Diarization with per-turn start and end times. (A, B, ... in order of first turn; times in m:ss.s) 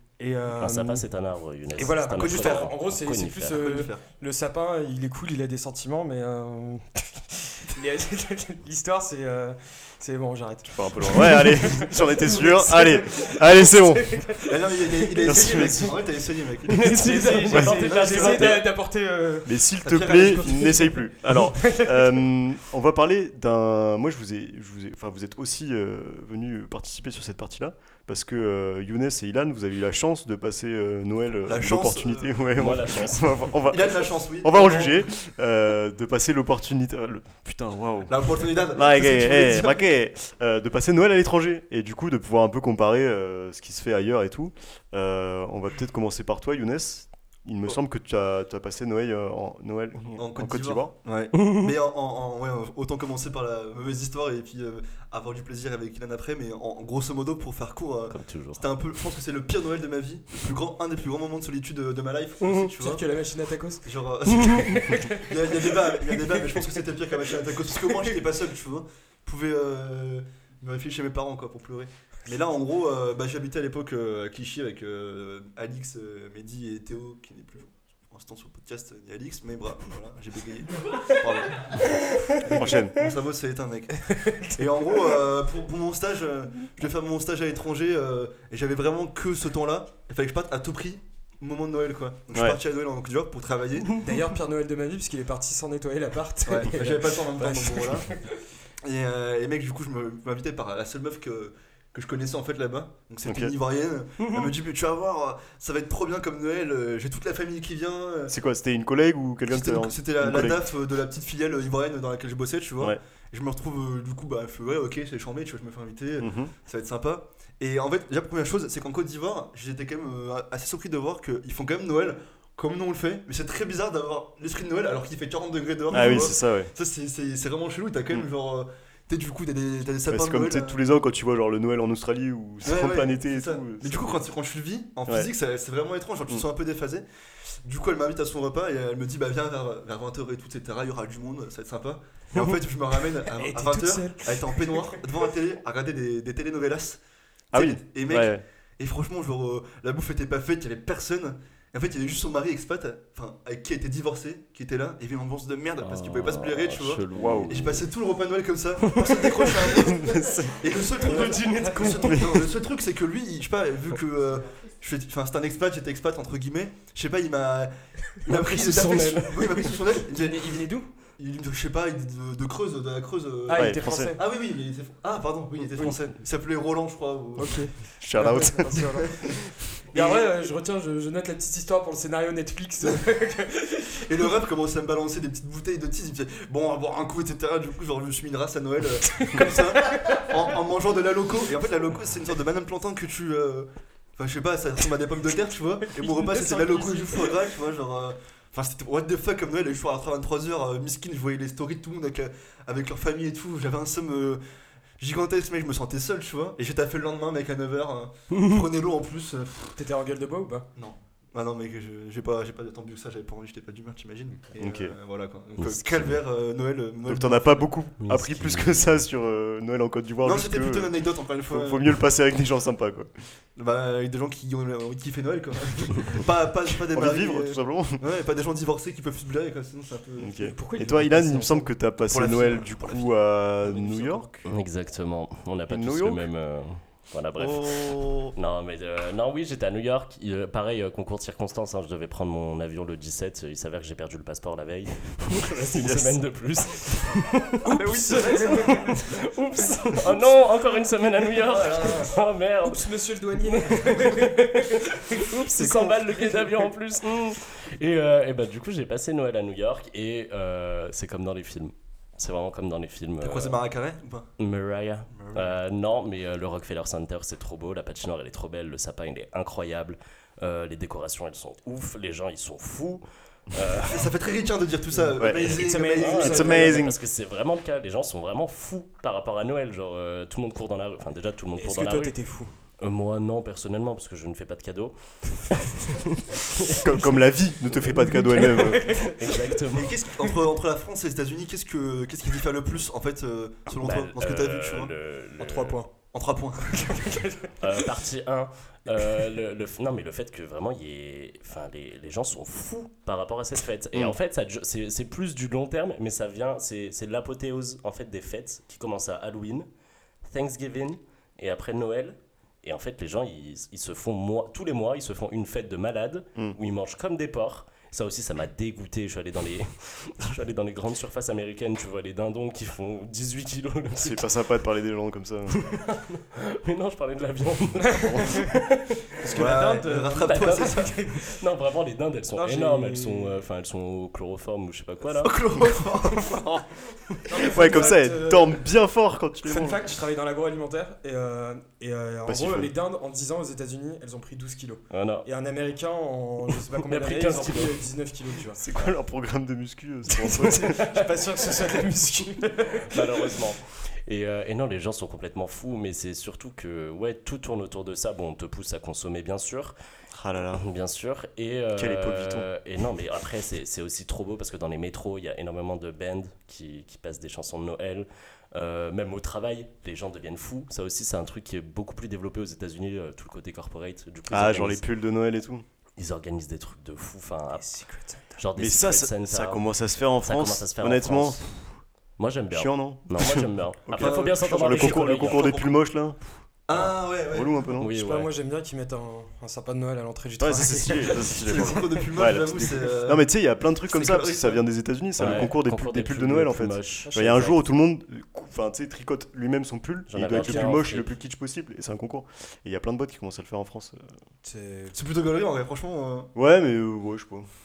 0:00.2-0:01.0 A
0:00.6-0:03.6 B
0:01.8-0:16.0 A
0:02.1-0:02.7 C
0:03.6-0:04.0 C
0:10.7-0:14.2 D
0:14.5-0:18.4 C
0:15.2-0:16.0 D
0:16.7-0:18.6 B
0:16.7-0:19.5 A
0:17.5-0:18.6 D
0:19.4-0:50.9 D
0:19.8-0:20.9 C
0:20.4-0:22.0 A
0:31.5-0:32.4 C
0:32.6-0:33.5 B
0:33.7-0:35.1 C
0:38.1-0:39.9 C
0:50.2-1:03.1 C
0:58.1-0:58.6 B
1:02.4-1:06.8 A
1:03.8-1:34.0 C
1:21.6-1:22.6 A
1:22.5-1:23.0 D
1:24.1-1:24.4 A
1:34.0-1:38.4 A
1:36.5-1:38.1 C
1:38.8-1:48.3 C
1:43.2-1:43.5 D
1:48.3-1:50.7 D
1:49.5-2:10.8 C
1:56.2-1:56.5 D
2:05.9-2:06.7 D
2:10.1-2:14.2 D
2:12.6-2:17.0 C
2:17.6-2:27.0 C
2:23.3-2:25.0 A
2:27.5-2:50.7 C
2:27.5-2:28.4 D
2:35.8-2:37.8 B
2:37.1-2:37.6 D
2:38.9-2:39.5 B
2:39.8-2:40.6 D
2:41.0-2:42.5 B
2:41.1-2:42.0 A
2:48.3-2:49.6 B
2:49.4-2:50.9 A
2:51.2-2:57.7 C
2:53.5-2:54.2 A
2:53.5-2:54.1 D
2:57.4-2:59.2 A
2:58.0-2:58.9 D
2:59.9-3:03.9 A
2:59.9-3:00.3 C
3:04.1-3:24.4 C
3:09.2-3:10.2 A
3:15.9-3:17.4 A
3:25.0-3:29.8 C
3:29.8-3:30.7 A
3:30.8-3:37.7 C
3:34.6-3:34.9 D
3:35.6-3:36.1 B
3:37.1-3:40.9 D
3:38.0-3:39.0 B
3:40.2-3:41.9 C
3:41.5-3:43.1 D
3:43.6-3:50.6 C
3:46.9-3:48.0 D
3:50.2-3:54.4 D
3:50.4-3:51.7 A
3:52.1-3:53.1 C
3:53.7-3:54.1 C
3:54.4-4:23.6 B
3:55.7-3:56.3 D
3:57.4-3:58.3 D
4:05.7-4:06.2 D
4:07.6-4:09.0 A
4:11.5-4:12.1 A
4:12.6-4:15.3 A
4:23.2-4:24.3 C
4:24.4-4:34.2 B
4:25.1-4:25.5 C
4:33.8-4:36.7 C
4:34.9-4:36.8 A
4:35.2-4:35.6 D
4:35.4-4:42.2 B
4:36.2-4:37.0 D
4:41.6-4:42.5 A
4:42.8-4:47.1 B
4:46.7-4:49.0 D
4:48.1-4:49.4 A
4:48.4-4:50.0 B
4:49.7-4:57.2 C
4:53.8-4:55.8 B
4:55.4-4:55.9 A
4:56.7-4:57.5 A
4:57.6-5:09.7 B
5:10.2-5:24.3 B
5:24.0-5:25.7 D
5:25.5-5:28.9 B
5:28.0-5:28.5 A
5:29.2-5:31.4 A
5:29.3-5:31.0 C
5:30.2-5:35.7 B
5:32.4-5:33.4 A
5:35.1-5:36.6 C
5:37.3-5:38.6 A
5:37.5-5:39.8 D
5:39.4-5:48.6 A
5:42.3-5:42.7 D
5:44.9-5:45.3 B
5:46.9-5:47.8 B
5:48.6-5:51.1 D
5:50.2-5:53.0 A
5:52.9-5:59.8 B
6:00.1-6:00.6 D
6:00.5-6:14.9 B
6:01.8-6:02.5 D
6:14.3-6:15.6 D
6:16.0-6:17.8 B
6:17.6-6:18.4 A
6:18.4-6:21.5 B
6:18.6-6:21.7 D
6:22.2-6:25.7 B
6:22.5-6:26.2 D
6:23.9-6:25.8 C
6:26.7-6:27.6 C
6:27.3-6:27.9 D
6:27.8-6:28.3 B
6:27.9-6:32.0 A
6:30.4-6:44.1 D
6:31.3-6:33.3 C
6:33.9-6:34.6 C
6:35.2-6:37.6 B
6:37.1-6:37.4 A
6:40.1-6:41.1 B
6:40.4-6:40.8 A
6:44.4-6:45.0 A
6:44.9-6:46.3 C
6:46.4-6:47.5 D